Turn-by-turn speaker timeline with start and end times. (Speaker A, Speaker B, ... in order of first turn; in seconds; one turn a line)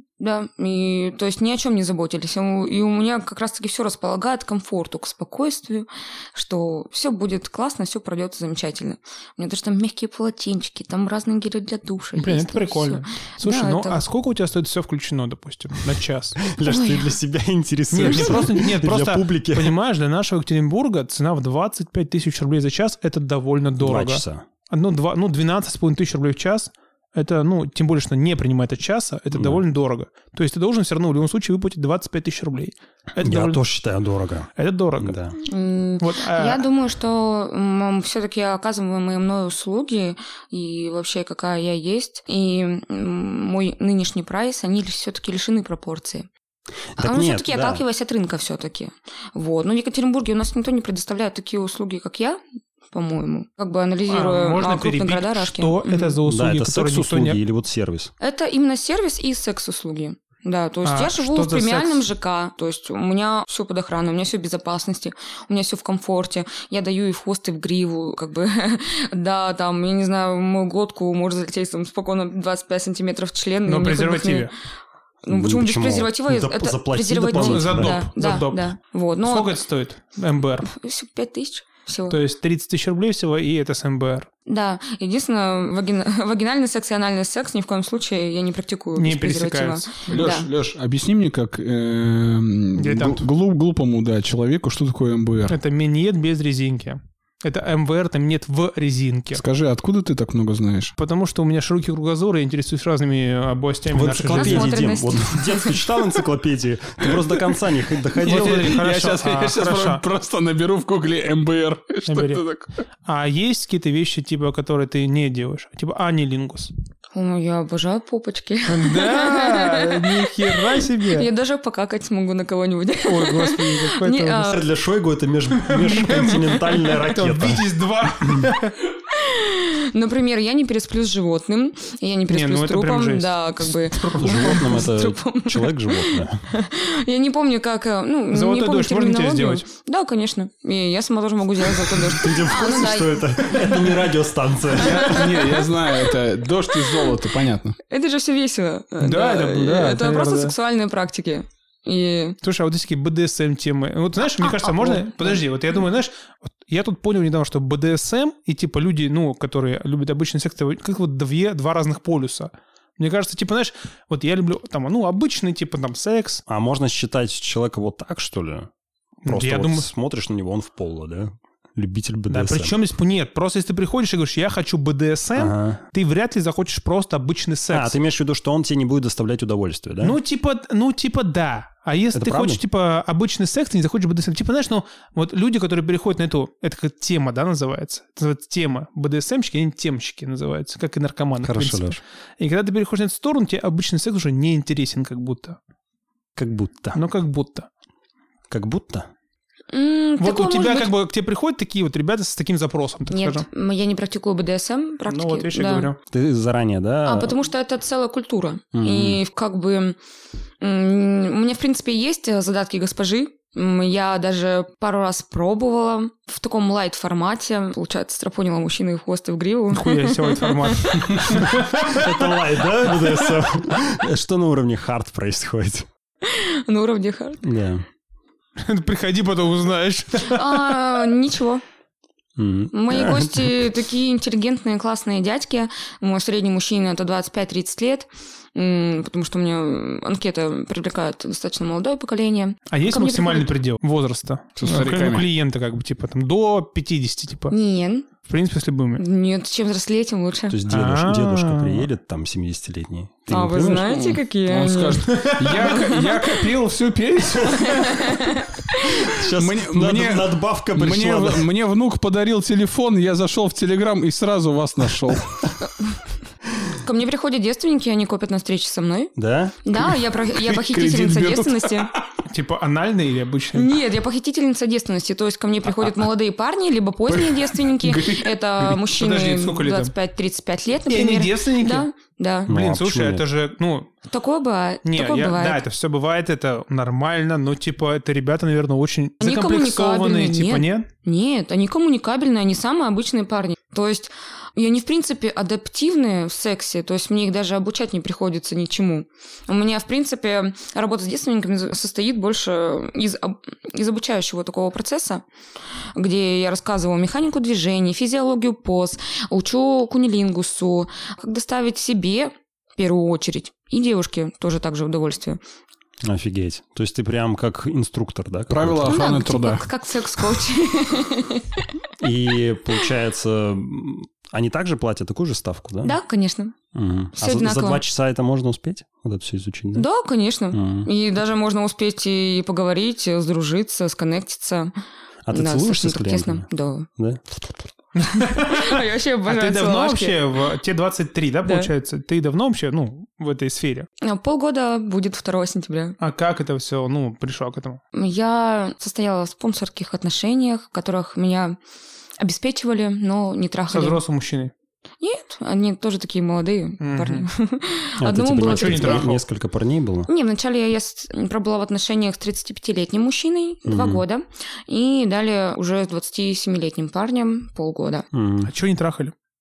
Speaker A: 0.2-14.0
Speaker B: 12.2-16.4
Speaker C: 16.4-19.8
Speaker A: 16.6-17.1
Speaker B: 17.9-33.6
Speaker A: 18.0-18.5
Speaker C: 23.8-24.4
Speaker C: 29.3-29.6
Speaker C: 33.2-35.3
Speaker B: 34.5-35.1
Speaker A: 35.4-46.3
Speaker B: 36.0-36.6
Speaker C: 46.9-47.8
Speaker A: 47.0-52.4
Speaker A: 52.9-56.2
Speaker B: 54.1-57.4
Speaker C: 56.2-58.1
Speaker A: 58.2-74.5
Speaker B: 60.8-62.0
Speaker B: 73.7-74.5
Speaker A: 75.2-79.6
Speaker C: 75.3-78.1
Speaker B: 77.3-78.7
Speaker B: 79.2-80.7
Speaker A: 80.6-82.2
Speaker B: 82.1-84.3
Speaker A: 84.5-90.5
Speaker B: 89.0-90.3
Speaker D: 90.1-95.6
Speaker B: 92.8-93.3
Speaker B: 95.5-99.4
Speaker D: 99.3-100.9
Speaker B: 101.0-104.8
Speaker C: 103.9-108.8
Speaker A: 104.3-105.9
Speaker B: 108.2-110.0
Speaker D: 108.2-112.7
Speaker B: 112.1-112.4
Speaker B: 113.0-116.7
Speaker A: 117.1-124.6
Speaker B: 118.7-121.3
Speaker B: 123.0-124.5
Speaker C: 124.5-127.7
Speaker B: 125.6-128.8
Speaker C: 128.2-128.5
Speaker A: 129.1-144.0
Speaker B: 132.3-134.8
Speaker C: 134.2-136.4
Speaker B: 138.3-139.6
Speaker C: 142.0-145.2
Speaker A: 144.7-145.7
Speaker D: 144.9-147.8
Speaker B: 144.9-145.3
Speaker A: 146.7-147.2
Speaker A: 147.9-152.4
Speaker B: 149.0-150.5
Speaker B: 152.4-166.4
Speaker A: 154.2-155.8
Speaker C: 166.5-168.7
Speaker B: 169.2-169.9
Speaker C: 169.2-172.7
Speaker B: 172.3-177.9
Speaker C: 175.4-175.8
Speaker C: 177.7-180.2
Speaker B: 180.0-195.6
Speaker C: 182.1-182.6
Speaker C: 191.4-192.0
Speaker C: 196.3-197.0
Speaker B: 196.9-197.7
Speaker C: 198.5-199.1
Speaker A: 199.7-200.9
Speaker B: 200.2-203.4
Speaker A: 203.1-205.9
Speaker B: 205.1-206.0
Speaker C: 206.1-207.3
Speaker A: 207.0-210.0
Speaker C: 208.8-209.1
Speaker A: 210.6-221.4
Speaker B: 219.7-223.4
Speaker C: 221.8-225.9
Speaker A: 226.2-227.4
Speaker C: 227.4-227.8
Speaker B: 228.6-230.8
Speaker A: 230.2-231.6
Speaker C: 232.4-233.7
Speaker A: 232.7-243.5
Speaker B: 242.7-247.5
Speaker D: 244.6-245.3
Speaker A: 247.5-248.1
Speaker B: 248.2-249.0
Speaker A: 249.0-250.6
Speaker C: 250.5-253.9
Speaker B: 250.7-251.9
Speaker A: 253.3-256.4
Speaker D: 253.6-258.0
Speaker B: 255.0-255.8
Speaker A: 257.4-259.2
Speaker B: 257.6-258.2
Speaker C: 259.0-261.4
Speaker D: 259.4-265.4
Speaker A: 266.7-269.1
Speaker C: 269.2-269.6
Speaker A: 269.6-271.9
Speaker D: 269.8-272.2
Speaker B: 272.2-273.7
Speaker A: 273.5-282.5
Speaker D: 277.1-278.8
Speaker B: 278.9-279.9
Speaker B: 280.9-281.9
Speaker C: 282.5-283.2
Speaker B: 282.5-283.9
Speaker A: 284.1-285.6
Speaker B: 284.8-290.9
Speaker A: 289.2-305.2
Speaker A: 305.9-315.4
Speaker C: 316.0-319.1
Speaker D: 318.5-319.7
Speaker A: 318.9-321.7
Speaker C: 322.0-326.0
Speaker A: 325.8-326.6
Speaker C: 326.7-329.9
Speaker A: 327.2-327.8
Speaker A: 329.7-334.7
Speaker C: 330.5-330.9
Speaker C: 335.2-336.4
Speaker A: 335.3-340.2
Speaker B: 337.9-343.9
Speaker A: 341.4-341.7
Speaker A: 344.0-346.0
Speaker B: 346.0-347.8
Speaker A: 347.9-351.6
Speaker A: 352.2-354.0
Speaker B: 353.7-354.5
Speaker A: 355.0-359.1
Speaker B: 356.8-357.3
Speaker C: 358.0-360.1
Speaker B: 358.4-359.2
Speaker A: 360.1-368.1
Speaker C: 363.6-364.0
Speaker C: 368.1-368.5
Speaker B: 368.4-369.1